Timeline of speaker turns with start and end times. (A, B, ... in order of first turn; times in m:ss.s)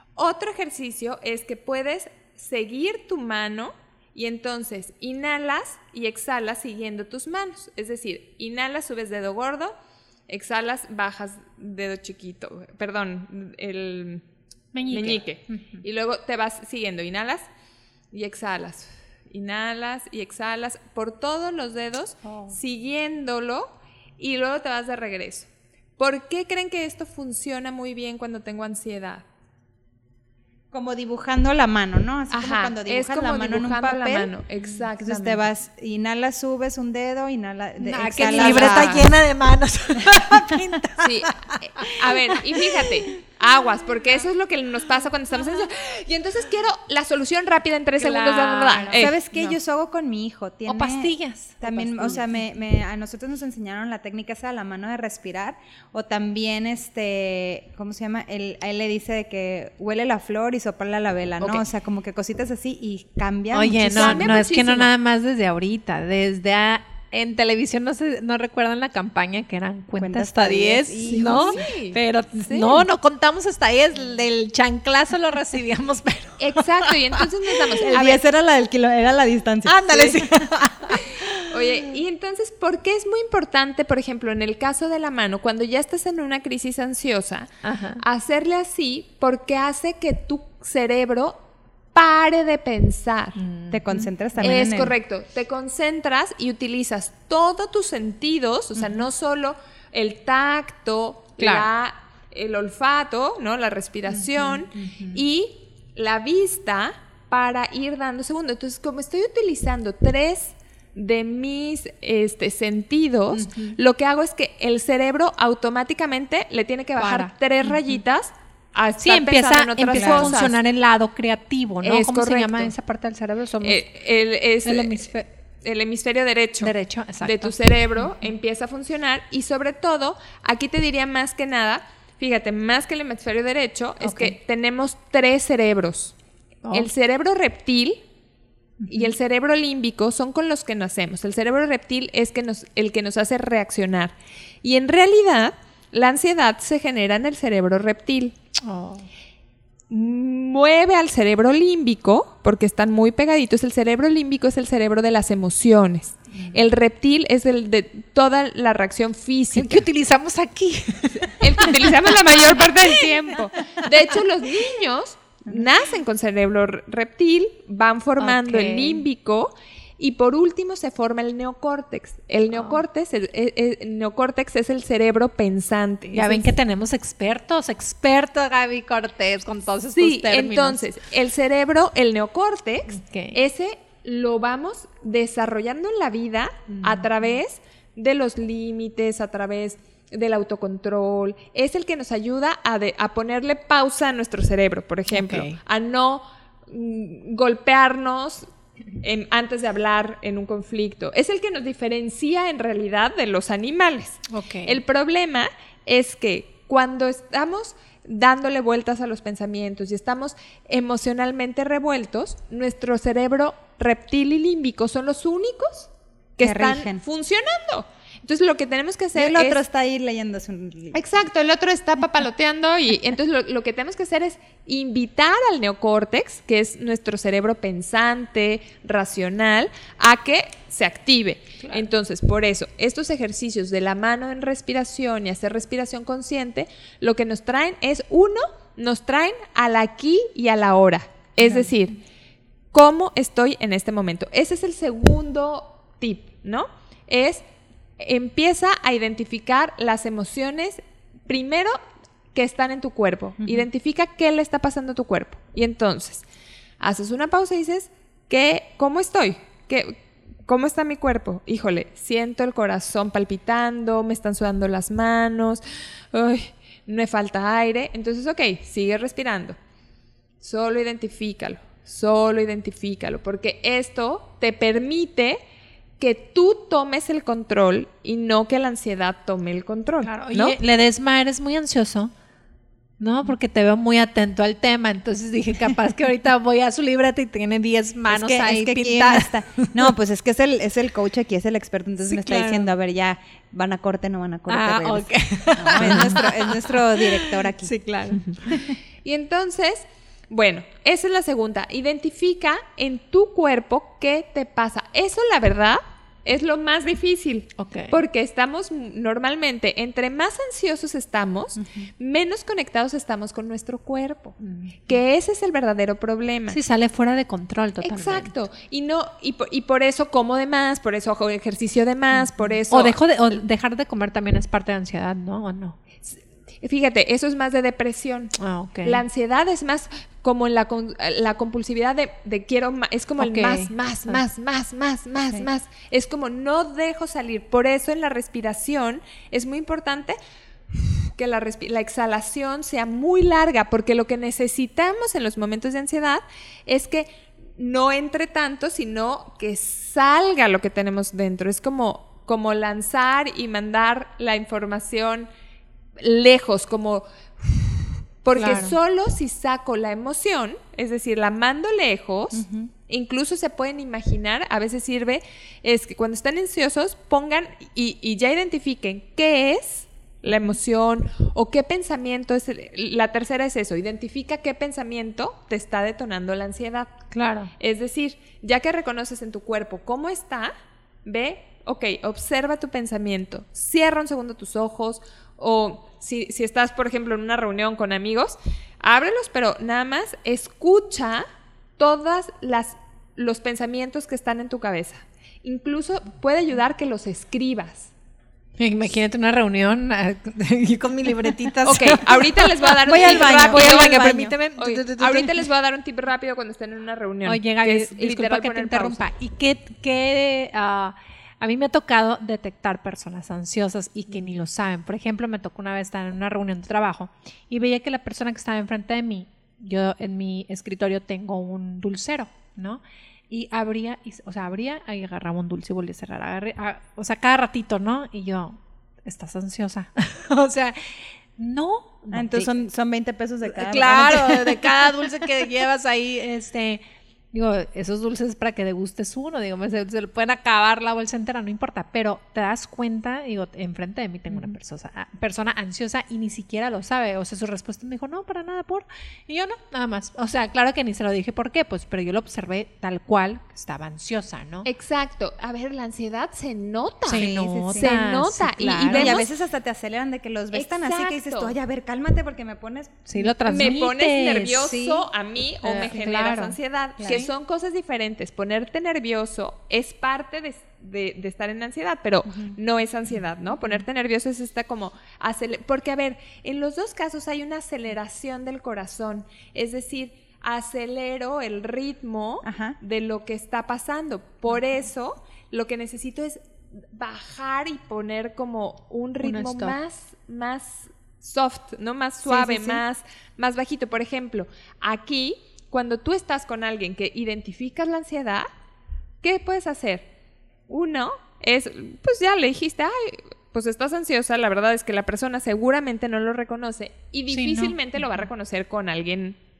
0:00.2-0:09.7 A
0:10.3-0:14.2 A
0:14.7-0:15.8 B
0:14.9-0:17.4 A
0:18.1-0:29.2 A
0:22.2-0:22.5 B
0:30.7-0:34.3 C
0:32.3-0:35.5 A
0:35.0-0:39.0 C
0:37.8-0:43.2 B
0:38.1-0:39.1 A
0:40.0-0:40.4 C
0:41.0-0:49.2 A
0:48.0-0:49.5 B
0:48.9-1:04.4 C
0:50.7-0:52.3 B
1:03.5-1:17.2 B
1:03.9-1:04.9 A
1:10.0-1:11.6 C
1:11.1-1:12.8 A
1:16.4-1:18.2 A
1:17.8-1:20.4 C
1:19.6-1:21.5 B
1:19.9-1:20.2 A
1:21.4-1:31.4 A
1:27.6-1:28.0 B
1:31.9-1:33.4 A
1:33.4-1:34.6 B
1:33.7-1:34.9 C
1:34.4-2:00.6 A
1:38.8-1:39.0 B
1:41.4-1:41.7 B
1:44.1-1:45.2 B
1:53.3-1:53.8 B
1:57.0-1:58.0 B
1:59.0-2:03.8 B
2:00.0-2:00.4 C
2:01.8-2:02.7 A
2:03.6-2:05.1 A
2:04.6-2:05.3 B
2:05.6-2:16.1 A
2:06.6-2:08.0 B
2:14.0-2:14.4 B
2:16.6-2:16.9 B
2:16.7-2:18.0 A
2:18.8-2:19.1 B
2:18.9-2:28.3 A
2:28.6-2:29.1 B
2:29.9-2:39.8 A
2:39.5-2:43.8 B
2:41.4-2:56.5 A
2:48.2-2:49.0 B
2:52.5-2:52.8 B
2:56.1-3:00.8 B
2:59.9-3:18.5 A
3:02.9-3:03.4 B
3:06.7-3:07.4 B
3:15.1-3:15.6 B
3:19.0-3:39.6 A
3:24.3-3:24.8 B
3:36.4-3:37.0 C
3:39.1-3:41.0 C
3:40.9-4:02.0 A
3:51.6-3:51.8 B
4:02.7-4:07.4 A
4:08.0-4:11.8 A
4:12.3-4:16.2 A
4:16.8-4:25.6 A
4:26.1-4:29.6 A
4:30.4-4:35.4 A
4:36.0-4:40.6 A
4:40.0-4:42.1 B
4:43.0-4:49.7 B
4:48.1-4:57.8 C
4:52.1-4:52.7 B
4:54.5-4:58.7 B
4:59.0-5:14.4 A
5:07.6-5:08.0 B
5:11.6-5:11.9 C
5:14.4-5:15.0 B
5:14.9-5:16.6 A
5:16.5-5:18.3 B
5:17.8-5:23.0 A
5:22.2-5:25.8 B
5:26.1-5:40.2 A
5:28.4-5:29.0 B
5:33.2-5:34.2 B
5:40.7-5:55.3 A
5:56.0-6:16.9 A
5:58.4-5:58.7 B
6:02.3-6:02.7 C
6:17.1-6:17.5 B
6:17.6-6:20.5 A
6:21.0-6:31.2 A
6:31.8-6:37.9 A
6:38.6-6:45.4 B
6:41.6-6:49.0 A
6:42.8-6:44.3 C
6:47.2-7:12.5 B
7:12.1-7:14.6 C
7:13.4-7:34.7 B
7:34.6-7:39.3 A
7:37.1-7:39.2 B
7:37.1-7:37.9 C
7:38.8-7:43.1 C
7:40.5-7:41.5 A
7:43.1-7:44.7 B
7:43.4-8:18.5 A
7:44.6-7:45.1 C
7:45.6-7:47.3 B
7:47.0-7:47.2 C
7:52.3-7:52.6 C
8:02.4-8:02.8 C
8:09.2-8:09.8 B
8:12.2-8:12.8 C
8:19.2-8:20.1 A
8:20.7-8:29.4 A
8:27.3-8:28.2 B